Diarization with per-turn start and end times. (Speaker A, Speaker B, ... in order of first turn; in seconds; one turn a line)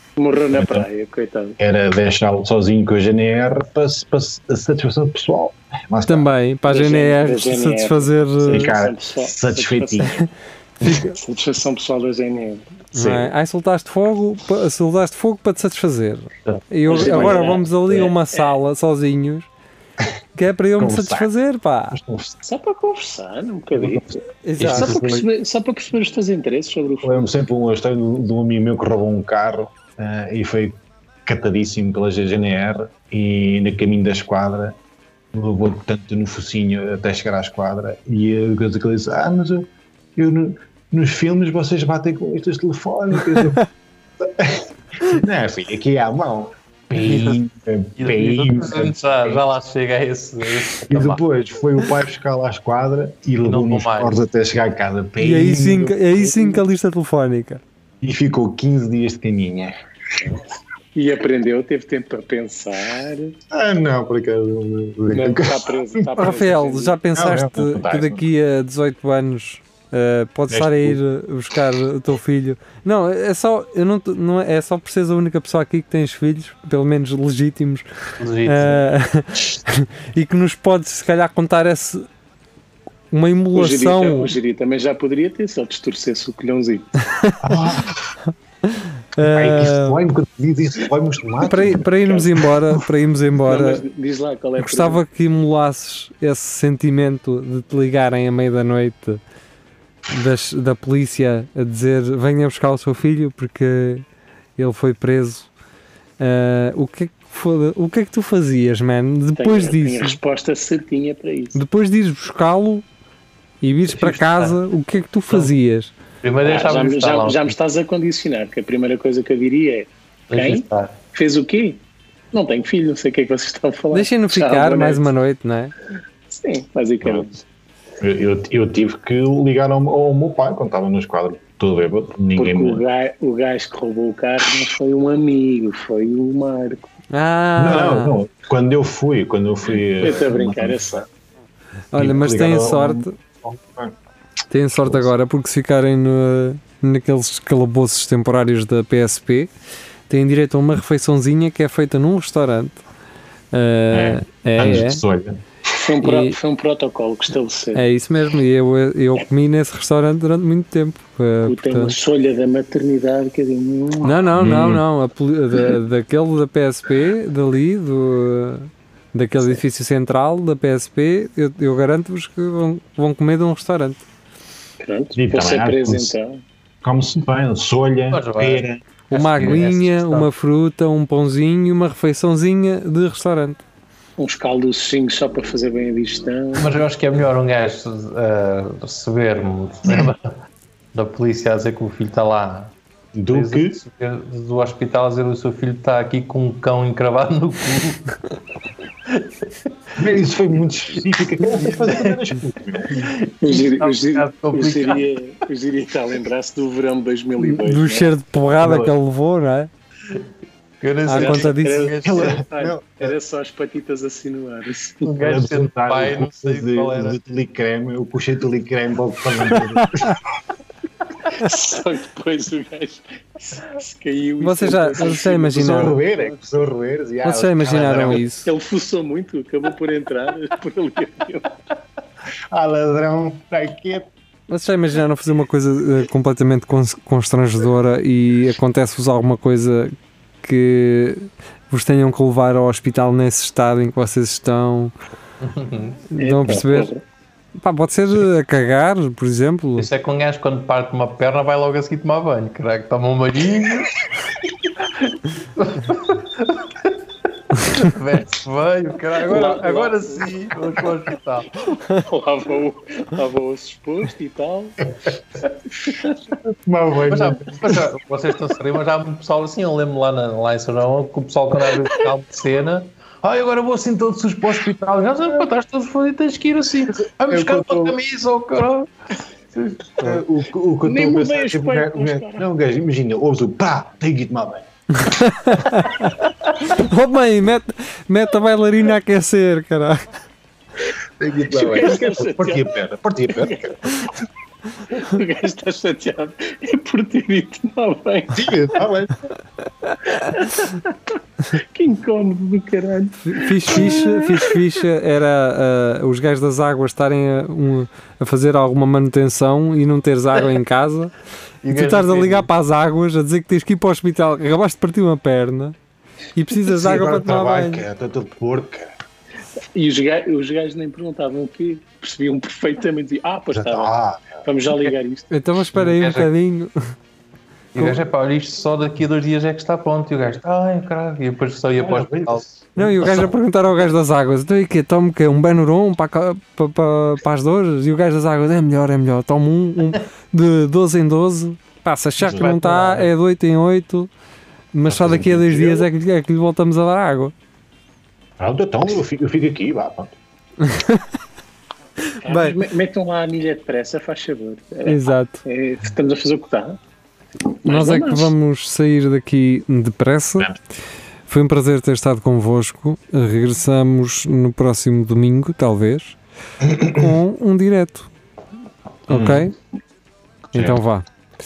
Speaker A: 0.2-1.6
Speaker B: 0.5-0.9
Speaker B: 1.6-6.3
Speaker C: 6.0-8.7
Speaker A: 6.7-10.2
Speaker B: 8.4-10.2
Speaker C: 10.8-11.1
Speaker A: 10.8-12.7
Speaker B: 12.9-13.3
Speaker C: 12.9-19.5
Speaker B: 16.9-18.1
Speaker A: 16.9-18.5
Speaker C: 20.4-22.0
Speaker B: 20.8-21.3
Speaker B: 21.9-22.4
Speaker A: 22.4-27.3
Speaker B: 23.7-24.2
Speaker C: 24.4-24.9
Speaker D: 24.6-25.2
Speaker B: 27.0-34.8
Speaker B: 35.3-43.6
Speaker B: 44.2-49.4
Speaker D: 47.0-47.4
Speaker D: 48.0-51.2
Speaker B: 50.9-56.6
Speaker D: 53.5-54.1
Speaker C: 55.2-57.6
Speaker B: 58.0-60.3
Speaker A: 60.9-63.4
Speaker B: 63.5-66.3
Speaker A: 65.1-67.0
Speaker C: 66.2-77.8
Speaker B: 67.1-68.2
Speaker B: 70.5-71.0
Speaker D: 78.2-78.8
Speaker C: 78.4-82.0
Speaker C: 83.1-84.3
Speaker A: 83.5-86.9
Speaker B: 87.4-88.1
Speaker C: 88.6-90.0
Speaker B: 89.2-92.8
Speaker C: 91.4-93.8
Speaker A: 93.4-95.0
Speaker C: 94.6-99.2
Speaker C: 100.1-104.0
Speaker C: 104.6-105.5
Speaker C: 106.2-110.2
Speaker A: 109.4-111.6
Speaker C: 111.5-112.8
Speaker C: 113.6-115.9
Speaker D: 113.9-114.6
Speaker D: 116.2-117.5
Speaker A: 116.4-125.0
Speaker D: 120.3-120.9
Speaker C: 123.9-125.7
Speaker A: 126.3-127.4
Speaker B: 128.0-132.8
Speaker A: 132.3-136.8
Speaker C: 137.1-138.2
Speaker B: 137.6-140.8
Speaker A: 140.0-141.1
Speaker C: 141.9-143.1
Speaker B: 141.9-143.9
Speaker C: 144.5-149.5
Speaker B: 144.8-145.1
Speaker C: 150.1-152.8
Speaker C: 153.5-155.0
Speaker B: 153.9-155.4
Speaker A: 155.7-157.8
Speaker C: 156.0-156.3
Speaker C: 157.7-161.9
Speaker A: 161.4-164.2
Speaker C: 164.0-174.0
Speaker B: 164.3-164.8
Speaker A: 174.8-176.4
Speaker B: 175.1-176.1
Speaker B: 176.8-178.8
Speaker D: 178.1-180.3
Speaker C: 179.1-183.6
Speaker B: 179.4-179.6
Speaker A: 184.2-186.7
Speaker D: 186.5-190.3
Speaker D: 190.9-192.7
Speaker B: 193.1-193.8
Speaker D: 193.3-198.1
Speaker D: 199.1-200.1
Speaker B: 200.0-203.0
Speaker D: 201.6-205.1
Speaker A: 203.4-208.1
Speaker C: 207.4-209.7
Speaker B: 208.6-208.9
Speaker D: 210.8-212.4
Speaker C: 211.1-211.9
Speaker A: 211.2-215.1
Speaker B: 212.0-213.1
Speaker D: 215.0-217.2
Speaker B: 215.2-220.2
Speaker C: 219.7-220.2
Speaker A: 221.3-226.0
Speaker C: 224.4-226.0
Speaker B: 225.5-228.2
Speaker C: 227.2-228.5
Speaker A: 228.4-231.5
Speaker B: 232.5-234.1
Speaker C: 234.5-244.9
Speaker D: 245.4-246.0
Speaker C: 246.1-246.9
Speaker A: 246.2-247.0
Speaker C: 247.6-249.9
Speaker D: 249.8-254.0
Speaker D: 255.5-256.7
Speaker D: 257.6-261.5
Speaker A: 259.2-260.3
Speaker A: 261.9-264.9
Speaker B: 266.4-267.8
Speaker D: 267.1-278.9
Speaker B: 277.0-278.0
Speaker D: 279.5-280.2
Speaker B: 280.0-284.7
Speaker A: 280.8-282.4
Speaker C: 285.0-286.1
Speaker C: 286.7-290.0
Speaker B: 291.2-294.1
Speaker A: 291.5-292.7
Speaker A: 293.3-294.1
Speaker A: 294.9-298.5
Speaker B: 298.3-299.3
Speaker A: 300.1-304.5
Speaker C: 303.2-311.1
Speaker D: 311.6-312.5
Speaker C: 311.7-315.8
Speaker C: 316.3-317.8
Speaker B: 316.6-318.9
Speaker A: 319.7-323.9
Speaker B: 323.5-324.4
Speaker A: 324.4-325.3
Speaker C: 325.3-326.7
Speaker D: 325.7-326.3
Speaker D: 327.7-332.4
Speaker B: 331.8-333.3
Speaker C: 332.8-344.1
Speaker B: 342.2-342.5
Speaker D: 342.3-343.1
Speaker C: 344.7-347.3
Speaker B: 344.9-345.9
Speaker B: 348.4-350.1
Speaker C: 350.6-351.0
Speaker A: 352.2-356.8
Speaker C: 352.2-352.6
Speaker C: 354.8-355.4
Speaker A: 357.6-358.3
Speaker C: 357.6-360.5
Speaker C: 361.3-366.2
Speaker B: 366.8-367.0
Speaker C: 366.8-368.1
Speaker C: 369.1-369.5
Speaker B: 369.1-369.5
Speaker B: 370.5-370.8
Speaker C: 370.5-371.0